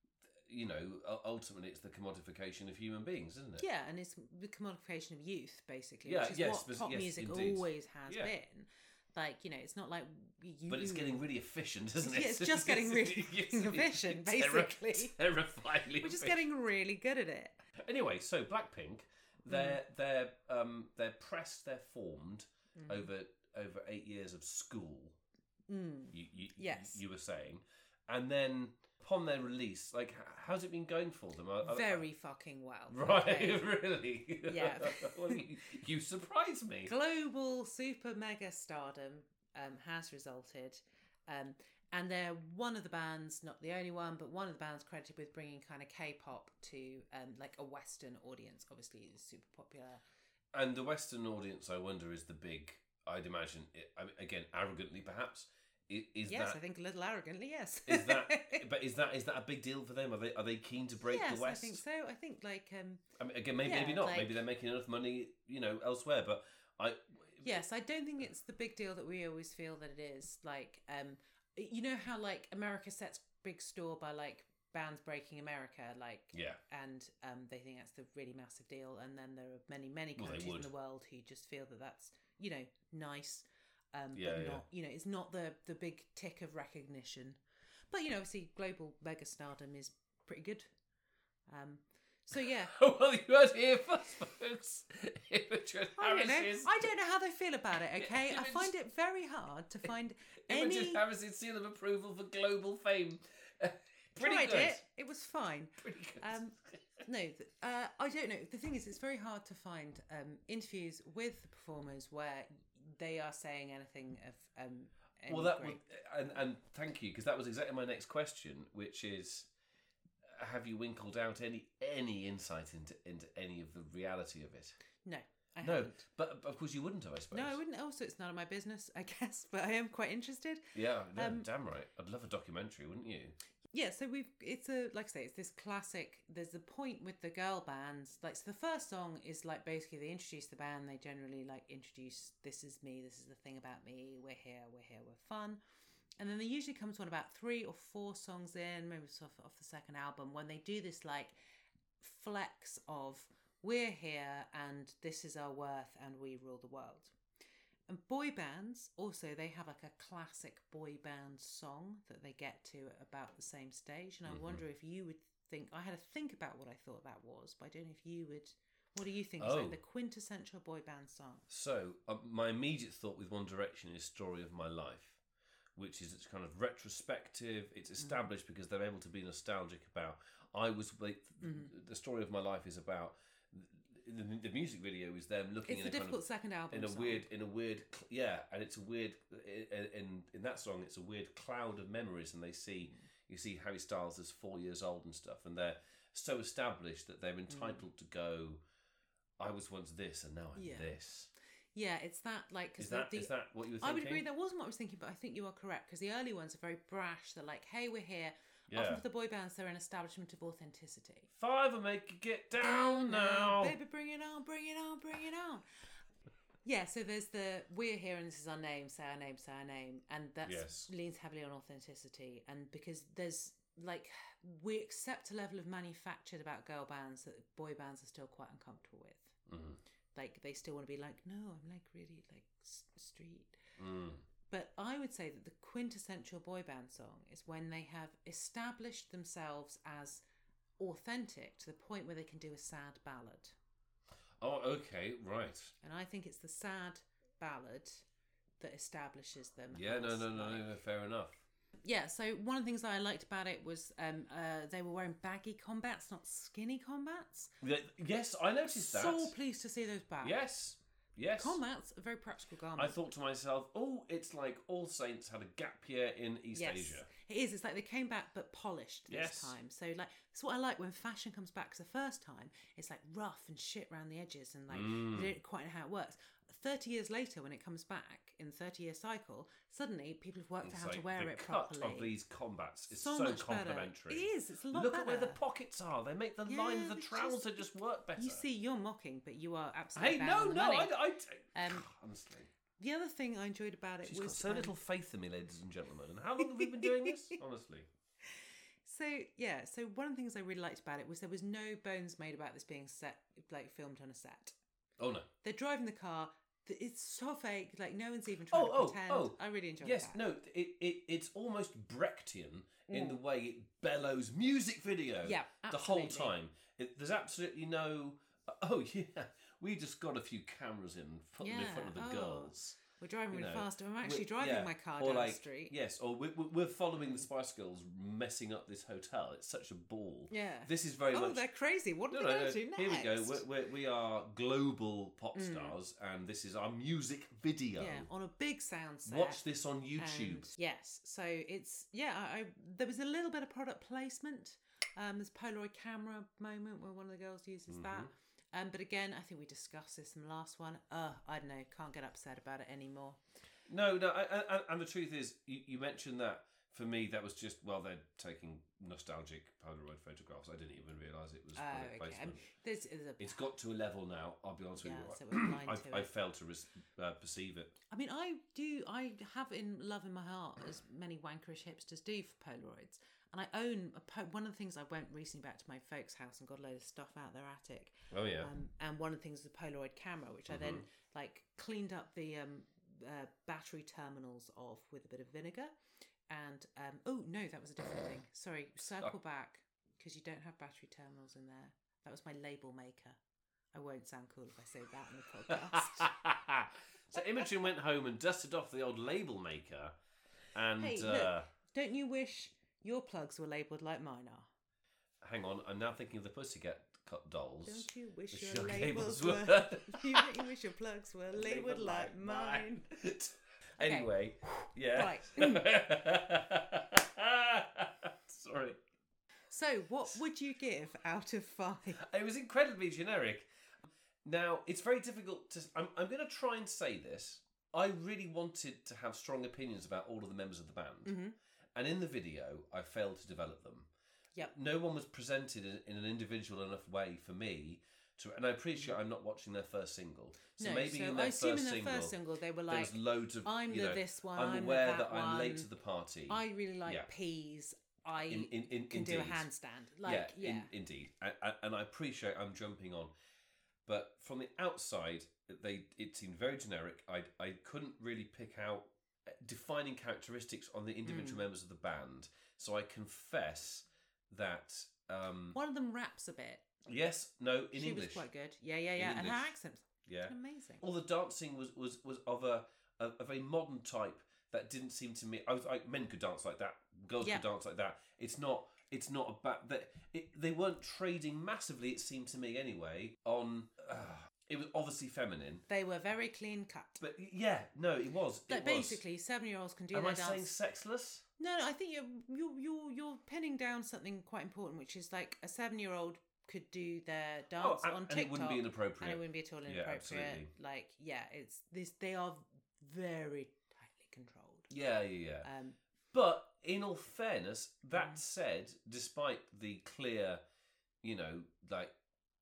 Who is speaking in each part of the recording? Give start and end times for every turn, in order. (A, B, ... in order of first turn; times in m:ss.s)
0:00.4-0:03.6 A
0:03.6-0:11.2 B
0:06.0-0:08.3 A
0:10.7-0:16.4 A
0:12.0-0:15.1 B
0:16.0-0:17.6 B
0:17.8-0:25.2 A
0:19.5-0:19.8 B
0:22.7-0:23.1 B
0:25.7-0:27.0 B
0:26.1-0:32.0 A
0:31.6-0:33.6 B
0:32.9-0:36.9 A
0:34.5-0:35.4 B
0:36.8-0:50.0 B
0:50.5-0:56.6 A
0:56.3-0:58.6 B
0:57.9-1:01.8 A
1:01.0-1:03.0 B
1:03.2-1:07.6 A
1:03.6-1:04.4 B
1:07.4-1:27.4 B
1:16.3-1:16.6 A
1:20.2-1:20.7 A
1:24.1-1:24.6 A
1:27.9-1:30.7 B
1:31.5-1:32.7 B
1:32.4-1:36.9 A
1:36.0-1:41.0 B
1:38.0-1:38.7 A
1:40.5-1:44.8 A
1:44.2-1:55.8 B
1:45.8-1:46.8 A
1:55.3-1:59.5 A
2:00.3-2:04.8 A
2:05.0-2:06.0 B
2:05.6-2:07.6 A
2:07.3-2:11.5 B
2:10.7-2:13.4 A
2:13.7-2:25.6 B
2:26.2-2:31.3 B
2:32.0-2:37.2 B
2:37.9-2:51.4 B
2:44.3-2:44.6 A
2:49.4-2:49.8 A
2:51.5-2:55.2 A
2:55.8-3:18.6 A
3:01.4-3:01.7 B
3:05.7-3:07.2 B
3:17.5-3:17.8 B
3:19.4-3:21.3 A
3:20.5-3:20.9 B
3:21.7-3:31.3 B
3:22.8-3:24.2 A
3:28.7-3:29.0 A
3:31.4-3:33.8 A
3:32.6-3:35.6 B
3:36.6-3:49.4 B
3:40.4-3:40.9 A
3:49.5-3:49.8 A
3:50.1-3:53.6 B
3:53.8-3:54.2 A
3:54.5-4:00.2 B
4:00.8-4:03.5 B
4:04.4-4:05.7 A
4:05.8-4:08.0 B
4:08.6-4:10.7 B
4:09.7-4:11.4 A
4:11.8-4:17.5 B
4:17.6-4:19.3 A
4:18.7-4:20.4 B
4:20.2-4:21.6 A
4:21.4-4:23.0 B
4:22.8-4:27.1 A
4:26.5-4:42.1 B
4:29.1-4:29.5 A
4:34.7-4:35.3 A
4:40.6-4:48.4 A
4:42.9-4:45.4 B
4:46.4-4:47.6 B
4:48.2-4:51.0 B
4:50.0-4:52.5 A
4:51.5-4:51.9 B
4:52.8-4:54.7 B
4:54.0-4:57.9 A
4:56.4-4:57.4 B
4:58.8-5:04.6 B
5:05.0-5:05.3 A
5:05.4-5:10.2 B
5:08.5-5:22.8 A
5:12.9-5:13.2 B
5:15.2-5:16.3 B
5:21.4-5:25.7 B
5:23.3-5:31.4 A
5:27.0-5:27.2 B
5:30.3-5:33.4 B
5:32.1-5:38.1 A
5:35.3-5:35.8 B
5:37.8-5:39.4 B
5:39.0-5:40.5 A
5:40.0-5:53.2 B
5:47.7-5:48.1 A
5:53.7-6:02.4 A
6:01.5-6:03.4 B
6:03.2-6:07.8 A
6:04.8-6:06.1 B
6:07.9-6:25.7 B
6:18.1-6:18.5 A
6:20.5-6:20.8 A
6:26.3-6:33.2 B
6:33.7-6:36.1 B
6:35.5-6:39.9 A
6:40.5-6:41.5 A
6:40.8-6:44.5 B
6:45.2-6:50.5 A
6:47.6-6:52.8 B
6:51.3-6:58.8 A
6:53.8-6:54.1 B
6:54.9-6:55.6 B
6:59.5-7:02.0 B
7:02.0-7:03.5 A
7:04.2-7:11.1 A
7:11.0-7:11.3 B
7:11.7-7:13.9 A
7:14.4-7:22.1 A
7:20.6-7:25.7 B
7:22.7-7:27.1 A
7:26.3-7:30.7 B
7:28.3-7:29.5 A
7:30.0-7:33.1 A
7:33.8-7:45.6 A
7:41.0-7:41.4 B
7:45.5-7:46.6 B
7:46.8-7:48.3 A
7:47.7-7:50.8 B
7:49.0-7:49.5 A
7:50.0-8:05.6 A
8:05.7-8:07.0 B
8:07.0-8:09.0 A
8:08.5-8:10.5 B
8:09.9-8:11.2 A
8:11.4-8:24.7 B
8:17.6-8:20.5 A
8:24.7-8:25.5 A
8:25.4-8:25.8 B
8:26.1-8:30.4 A
8:27.9-8:28.2 B
8:31.0-8:31.9 A